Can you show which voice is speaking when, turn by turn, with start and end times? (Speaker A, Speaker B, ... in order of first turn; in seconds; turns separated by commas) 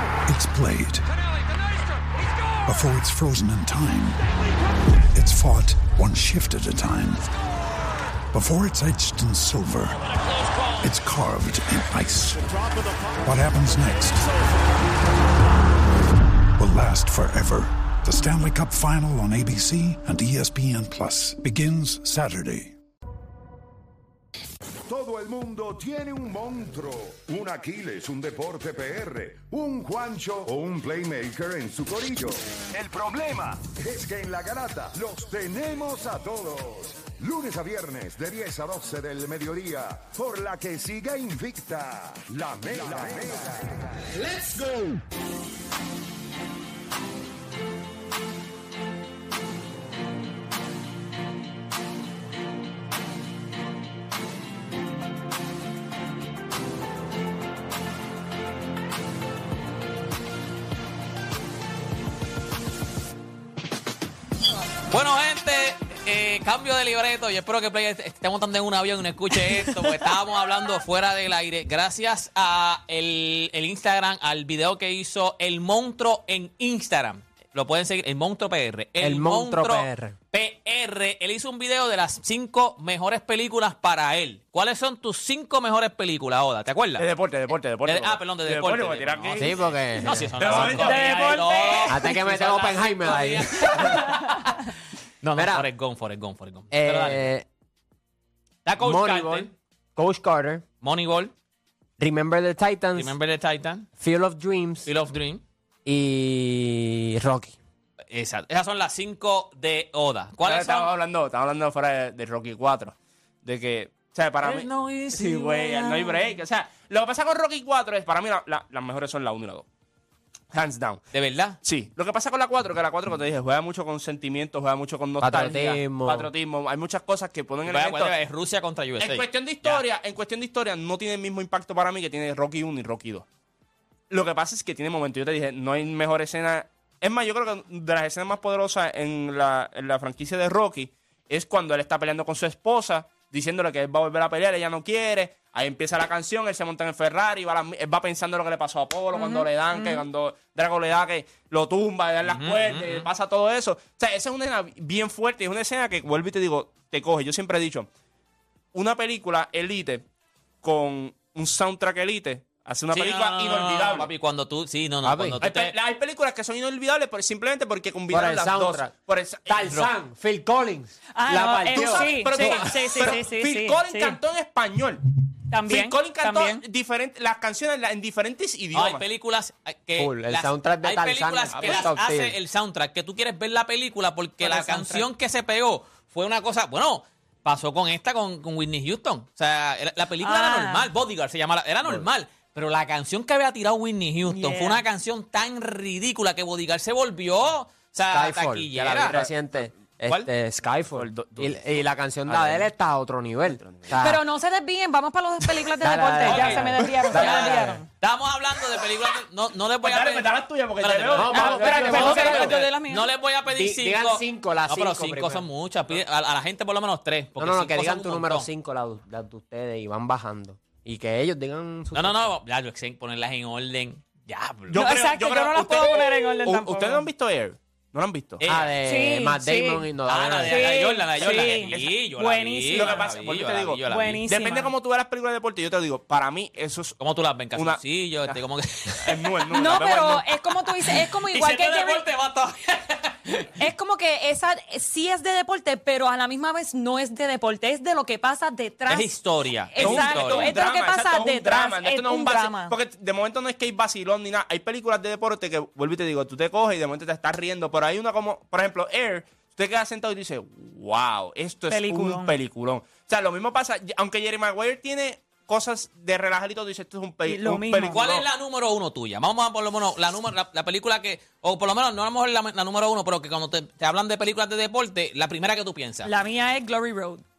Speaker A: 0.2-1.1, Speaker A: 2.6-4.2, Speaker A: 5.1-7.3, Speaker A: 8.3-10.0, Speaker A: 10.8-12.6, Speaker A: 13.2-14.3, Speaker A: 16.6-22.7, Speaker B: 24.9-43.7, Speaker C: 64.9-87.0, Speaker D: 79.0-80.2, Speaker E: 87.0-89.6, Speaker C: 87.8-94.2, Speaker D: 89.3-91.0, Speaker E: 90.4-91.4, Speaker F: 90.8-92.2, Speaker D: 91.8-94.3, Speaker C: 95.2-97.3, Speaker D: 95.3-95.7, Speaker D: 96.7-97.5, Speaker C: 98.6-99.5, Speaker D: 98.8-100.6, Speaker C: 100.8-101.3, Speaker D: 102.0-103.2, Speaker C: 102.9-103.9, Speaker D: 104.0-104.9, Speaker C: 104.8-105.4, Speaker D: 105.8-107.6, Speaker C: 108.1-110.9, Speaker E: 110.4-119.6, Speaker C: 114.4-115.9, Speaker F: 116.0-116.4, Speaker E: 120.5-121.0, Speaker C: 121.1-121.6, Speaker E: 121.6-128.1, Speaker D: 125.2-126.3, Speaker C: 127.7-129.8, Speaker E: 129.0-133.2, Speaker E: 134.1-157.9, Speaker F: 149.1-150.1, Speaker C: 152.3-153.1, Speaker E: 158.7-160.1, Speaker E: 160.6-164.1, Speaker C: 162.9-165.7, Speaker D: 165.0-165.4, Speaker E: 165.4-169.9, Speaker D: 168.1-168.9, Speaker D: 169.4-172.9, Speaker F: 171.1-174.2, Speaker E: 171.7-175.0, Speaker F: 175.5-176.6, Speaker E: 175.7-179.0, Speaker C: 178.7-199.1, Speaker D: 179.9-182.4, Speaker E: 181.5-181.9, Speaker F: 184.4-185.1, Speaker F: 190.2-190.9, Speaker F: 194.2-194.8, Speaker D: 198.1-204.2, Speaker E: 199.1-200.3, Speaker E: 200.9-202.7, Speaker E: 203.4-204.0, Speaker F: 203.9-207.9, Speaker D: 205.8-207.8, Speaker C: 206.2-218.5, Speaker E: 206.8-207.4, Speaker E: 209.8-212.7, Speaker D: 211.1-212.6, Speaker F: 211.4-213.1, Speaker D: 213.4-215.5, Speaker D: 217.4-222.3, Speaker C: 221.9-224.9, Speaker E: 224.7-228.4, Speaker F: 224.8-227.1, Speaker C: 228.4-228.7, Speaker D: 228.4-230.7, Speaker F: 228.8-229.9, Speaker C: 230.1-234.2, Speaker F: 230.4-233.0, Speaker E: 231.3-231.9, Speaker E: 232.7-237.0, Speaker F: 233.9-234.7, Speaker C: 237.0-239.1, Speaker E: 237.5-238.4, Speaker E: 239.0-240.2, Speaker F: 239.3-242.1, Speaker C: 240.4-243.5, Speaker F: 243.6-252.8, Speaker C: 248.9-250.6, Speaker E: 249.8-268.2, Speaker F: 261.7-262.4, Speaker F: 267.2-268.1, Speaker C: 267.9-276.1, Speaker F: 276.0-277.2